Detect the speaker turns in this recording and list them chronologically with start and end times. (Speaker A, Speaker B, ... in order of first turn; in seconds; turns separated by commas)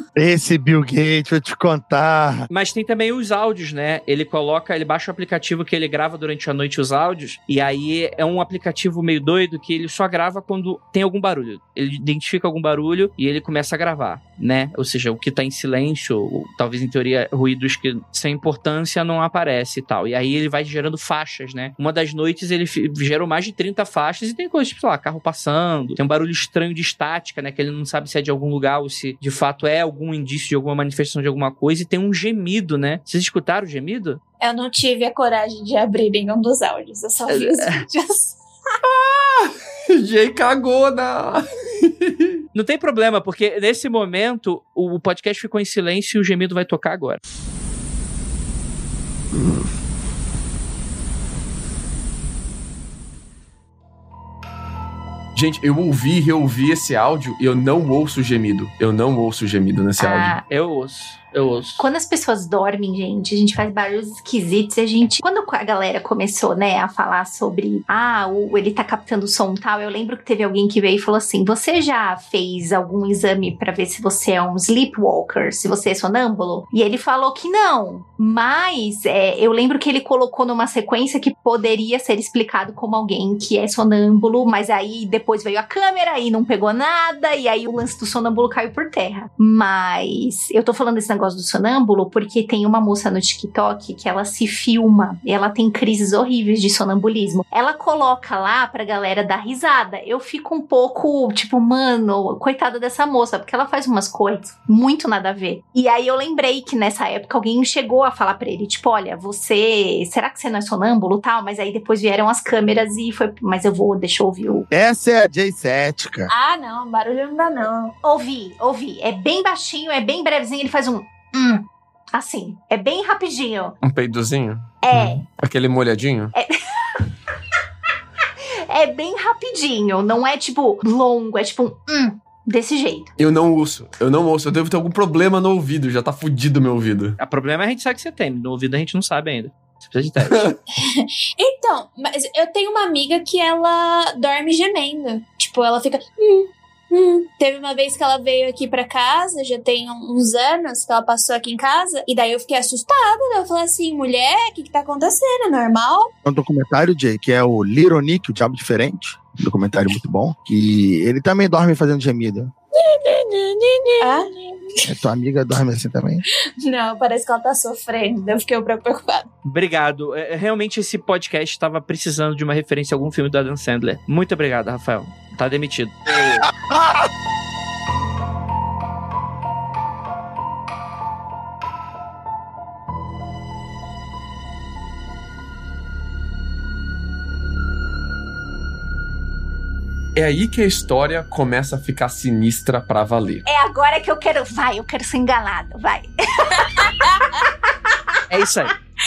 Speaker A: 0.1-2.5, Speaker B: 2.5-34.2, Speaker C: 34.4-38.4, Speaker B: 37.3-37.9, Speaker D: 38.8-42.3, Speaker B: 42.5-47.2, Speaker D: 55.3-60.4, Speaker E: 60.0-60.4, Speaker B: 60.5-61.9, Speaker E: 61.8-114.7, Speaker A: 114.7-116.3, Speaker C: 116.3-117.9, Speaker E: 118.0-123.8, Speaker D: 123.8-126.3, Speaker E: 124.8-125.2, Speaker E: 126.3-127.1, Speaker E: 128.7-133.1, Speaker D: 133.2-137.2, Speaker B: 137.2-140.5, Speaker D: 140.2-140.5, Speaker C: 140.8-156.1, Speaker A: 156.2-162.5, Speaker C: 162.8-164.8, Speaker A: 164.8-166.2, Speaker C: 166.6-169.3, Speaker B: 169.4-176.4, Speaker A: 176.1-177.1, Speaker D: 190.2-193.4, Speaker E: 193.4-198.2, Speaker B: 198.3-198.7